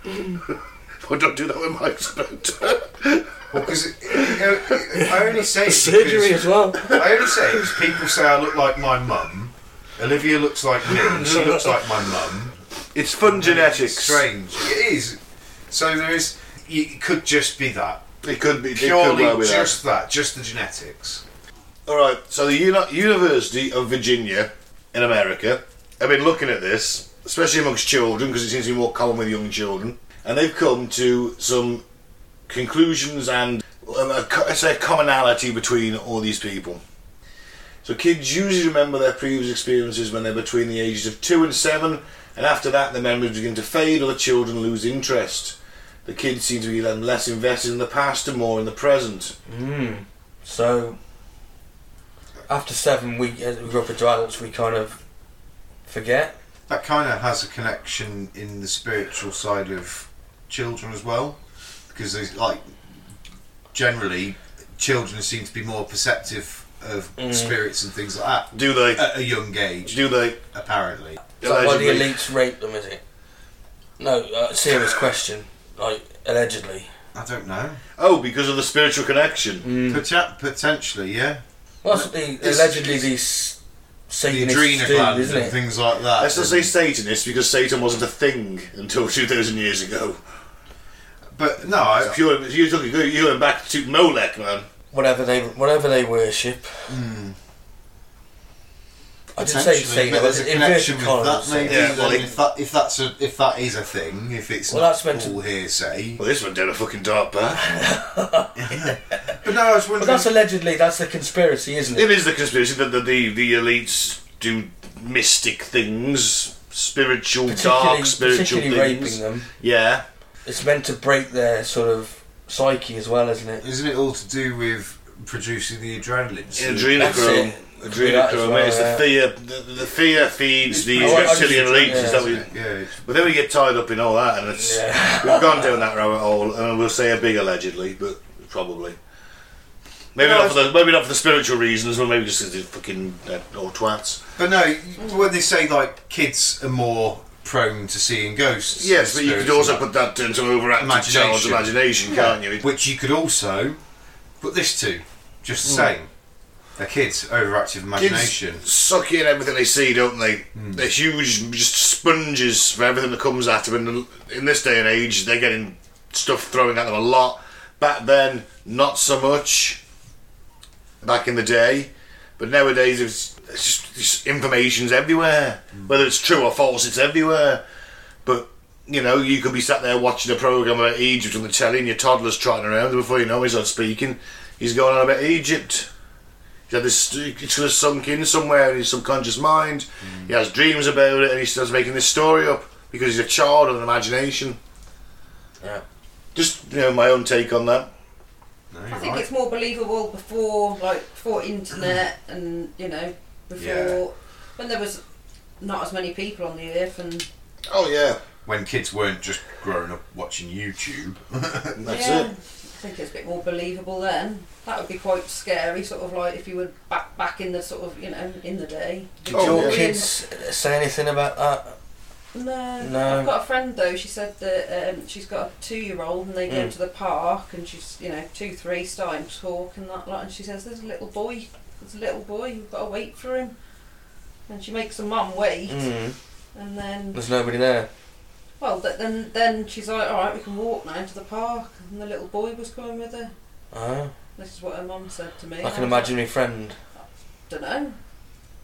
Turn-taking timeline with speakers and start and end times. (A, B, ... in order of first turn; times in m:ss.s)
0:00.5-0:05.0 A
0:03.5-0:12.6 B
0:05.5-0:07.0 C
0:10.9-0:11.6 C
0:12.9-0:14.3 A
0:13.3-0:15.2 B
0:15.7-0:18.0 B
0:18.2-0:19.8 A
0:18.7-0:21.2 B
0:21.8-0:31.8 A
0:32.5-0:36.8 A
0:37.8-0:49.3 A
0:49.5-0:51.0 C
0:52.5-0:55.0 C
0:55.9-0:56.3 C
0:56.7-1:01.4 B
1:01.9-1:02.7 B
1:03.7-1:11.2 B
1:07.2-1:07.5 C
1:08.5-1:09.0 A
1:09.8-1:10.4 A
1:11.4-1:13.0 C
1:11.4-1:12.2 A
1:14.0-1:16.9 C
1:17.1-1:17.8 B
1:18.0-1:19.7 A
1:19.6-1:20.0 C
1:19.8-1:22.1 B
1:21.8-1:23.6 C
1:22.4-1:23.0 A
1:24.1-1:25.6 C
1:24.2-1:26.7 B
1:26.1-1:30.2 A
1:31.3-1:32.2 B
1:31.8-1:34.7 A
1:34.9-1:36.9 C
1:36.9-1:37.4 B
1:39.4-1:42.2 C
1:39.4-1:46.2 B
1:41.6-1:42.3 A
1:44.7-1:45.4 C
1:46.2-1:47.6 A
1:47.6-1:49.0 C
1:48.6-1:50.3 B
1:50.0-1:52.1 C
1:51.9-2:00.0 A
1:57.5-1:59.5 C
2:00.4-2:03.6 C
2:03.6-2:07.3 B
2:06.5-2:19.0 A
2:06.9-2:09.0 C
2:10.7-2:13.0 B
2:10.9-2:12.3 C
2:14.5-2:15.7 C
2:20.1-2:24.2 A
2:20.2-2:20.6 B
2:24.4-2:29.8 B
2:28.8-2:32.6 A
2:30.8-2:33.8 B
2:34.4-2:36.1 B
2:35.6-2:35.9 A
2:36.8-2:38.6 B
2:37.9-2:49.8 A
2:40.6-2:40.8 B
2:51.0-2:57.6 A
2:58.2-3:05.9 A
3:06.7-3:14.6 A
3:10.0-3:10.3 B
3:16.3-3:17.9 A
3:18.7-3:19.2 B
3:18.9-3:25.0 D
3:23.6-3:24.0 B
3:25.6-3:27.3 D
3:27.7-3:28.2 A
3:28.4-3:31.8 B
3:31.8-3:32.3 A
3:31.9-3:40.1 D
3:39.3-3:39.9 A
3:39.3-3:41.7 C
3:42.3-3:53.5 D
3:42.8-3:43.3 C
3:46.5-3:46.7 C
3:54.5-3:55.8 D
3:55.7-3:56.2 C
3:56.5-3:57.2 D
3:57.1-3:57.9 C
3:58.6-4:03.3 D
4:03.7-4:04.1 C
4:04.4-4:06.2 D
4:05.6-4:06.8 C
4:07.5-4:08.0 D